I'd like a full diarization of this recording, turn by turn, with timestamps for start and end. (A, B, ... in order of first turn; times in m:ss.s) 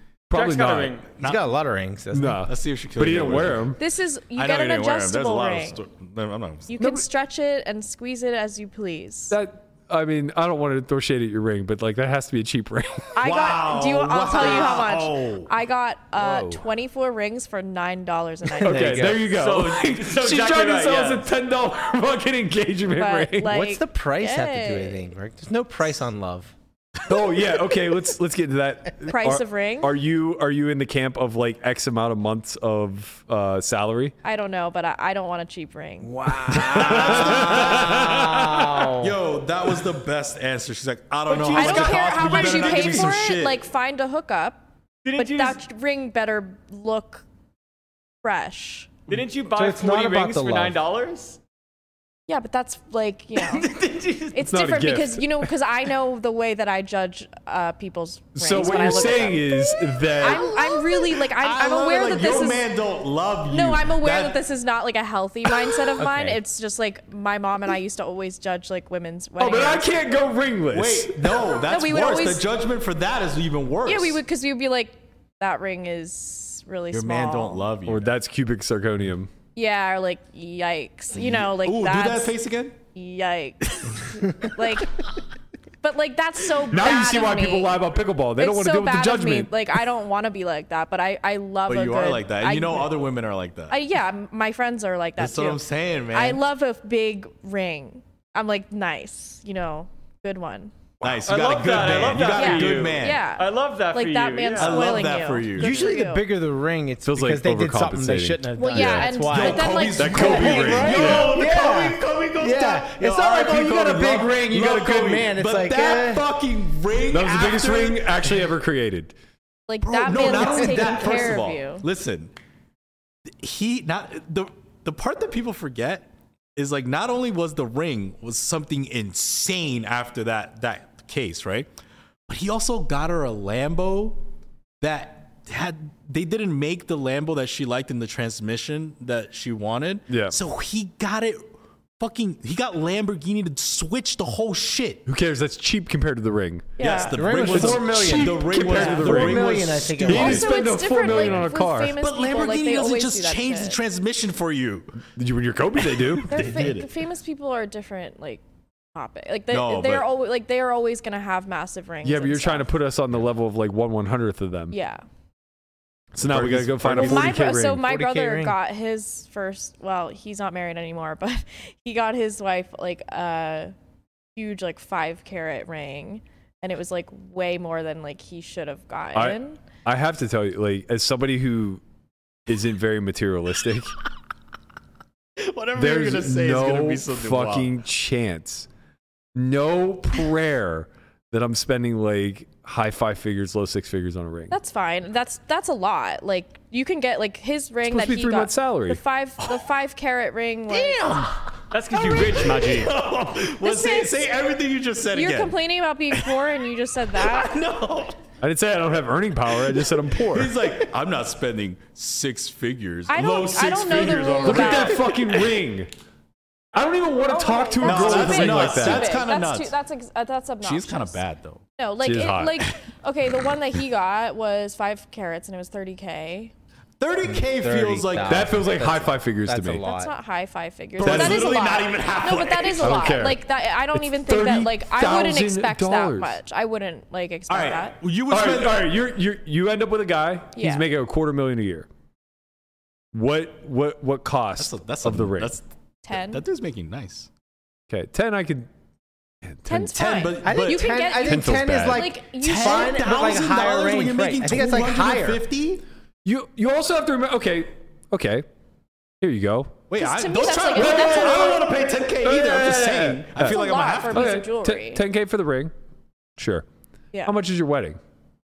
0:00.3-0:01.0 A
0:00.3-0:01.1 B
0:01.2-0:02.4 C
0:02.1-0:03.8 A
0:02.4-0:03.7 D
0:03.8-0:05.8 E
0:04.4-0:06.7 D
0:06.7-0:09.4 E
0:06.8-0:07.0 A
0:09.3-0:13.2 A
0:13.2-0:19.1 E
0:13.2-0:15.5 D
0:16.2-0:16.6 C
0:18.5-0:19.3 C
0:18.6-0:23.5 A
0:19.2-0:21.3 B
0:22.9-0:25.1 E
0:23.5-0:26.5 C
0:27.1-0:34.1 A
0:29.1-0:29.9 E
0:34.2-0:36.1 E
0:36.0-0:39.1 C
0:36.4-0:43.6 D
0:36.5-0:38.7 A
0:41.3-0:43.1 B
0:41.5-0:47.2 E
0:45.0-0:45.6 B
0:48.2-0:48.9 E
0:49.1-0:51.4 B
0:49.5-0:50.8 C
0:52.3-0:53.7 E
0:53.6-0:54.3 D
0:54.3-1:02.6 E
0:54.4-0:55.5 A
0:58.4-1:00.5 A
1:00.2-1:04.4 D
1:03.5-1:09.9 E
1:06.0-1:06.4 C
1:09.4-1:11.4 A
1:10.7-1:14.2 D
1:11.6-1:12.4 E
1:13.8-1:17.7 E
1:16.9-1:18.1 D
1:17.9-1:19.3 A
1:19.6-1:22.3 E
1:21.1-1:22.8 D
1:22.9-1:25.0 E
1:25.8-1:27.8 E
1:26.7-1:29.8 A
1:28.4-1:32.9 E
1:31.7-1:33.8 D
1:33.7-1:40.7 E
1:35.2-1:36.4 D
1:41.0-1:41.3 A
1:41.0-1:43.2 D
1:41.2-1:45.0 B
1:42.3-1:46.2 E
1:44.6-1:45.8 D
1:45.6-1:56.2 C
1:47.0-1:49.1 A
1:48.6-1:51.0 E
1:49.2-1:58.4 D
1:50.0-1:51.3 A
1:53.2-1:54.6 A
1:57.1-1:59.1 A
1:59.7-2:01.8 E
1:59.8-2:02.3 D
2:00.1-2:01.0 C
2:03.4-2:11.7 D
2:12.3-2:14.2 D
2:14.8-2:21.4 D
2:20.1-2:20.4 A
2:22.0-2:25.0 D
2:25.0-2:26.8 A
2:26.8-2:27.2 E
2:26.8-2:30.5 D
2:27.1-2:30.5 C
2:27.3-2:32.0 A
2:30.1-2:33.8 E
2:31.0-2:31.4 D
2:32.0-2:35.0 D
2:35.2-2:36.4 A
2:36.0-2:36.9 D
2:36.3-2:38.4 E
2:38.9-2:42.7 E
2:39.5-2:40.1 D
2:42.0-2:44.7 A
2:44.7-2:45.0 E
2:46.1-2:47.8 A
2:46.3-2:47.4 D
2:47.0-2:53.7 E
2:47.6-2:48.6 C
2:54.4-2:59.6 E
2:59.1-3:01.8 A
3:02.5-3:03.9 A
3:05.4-3:07.7 D
3:05.8-3:08.7 A
3:09.3-3:14.5 A
3:14.5-3:21.3 E
3:17.9-3:19.0 A
3:20.7-3:21.4 C
3:21.7-3:22.9 B
3:21.9-3:25.6 D
3:23.6-3:24.4 E
3:25.1-3:27.6 E
3:26.1-3:26.6 D
3:27.1-3:28.2 D
3:28.4-3:30.6 A
3:29.7-3:35.3 D
3:33.1-3:35.1 E
3:34.4-3:35.9 A
3:36.7-3:39.2 A
3:37.3-3:41.2 E
3:37.8-3:39.7 D
3:40.6-3:41.6 D
3:41.8-3:46.5 E
3:42.0-3:42.6 A
3:47.0-3:48.5 D
3:47.2-3:50.1 C
3:48.2-3:49.8 A
3:49.8-3:58.0 E
3:51.0-3:53.1 D
3:51.0-3:51.5 A
3:52.8-3:53.4 A
3:54.0-3:56.4 A
3:57.5-3:58.9 D
3:58.3-4:01.9 A
4:00.5-4:00.8 E
4:03.1-4:05.6 A
4:04.6-4:07.3 D
4:06.0-4:06.4 E
4:07.9-4:08.7 A
4:09.4-4:09.9 A
4:09.6-4:13.3 E
4:09.9-4:11.0 D
4:10.4-4:15.4 C
4:11.2-4:12.1 A
4:12.4-4:15.8 D
4:16.2-4:18.4 A
4:19.2-4:19.8 A
4:19.9-4:24.4 D
4:20.0-4:21.9 E
4:20.7-4:21.6 A
4:22.2-4:25.7 A
4:23.4-4:25.0 E
4:26.4-4:26.6 A
4:27.2-4:28.0 A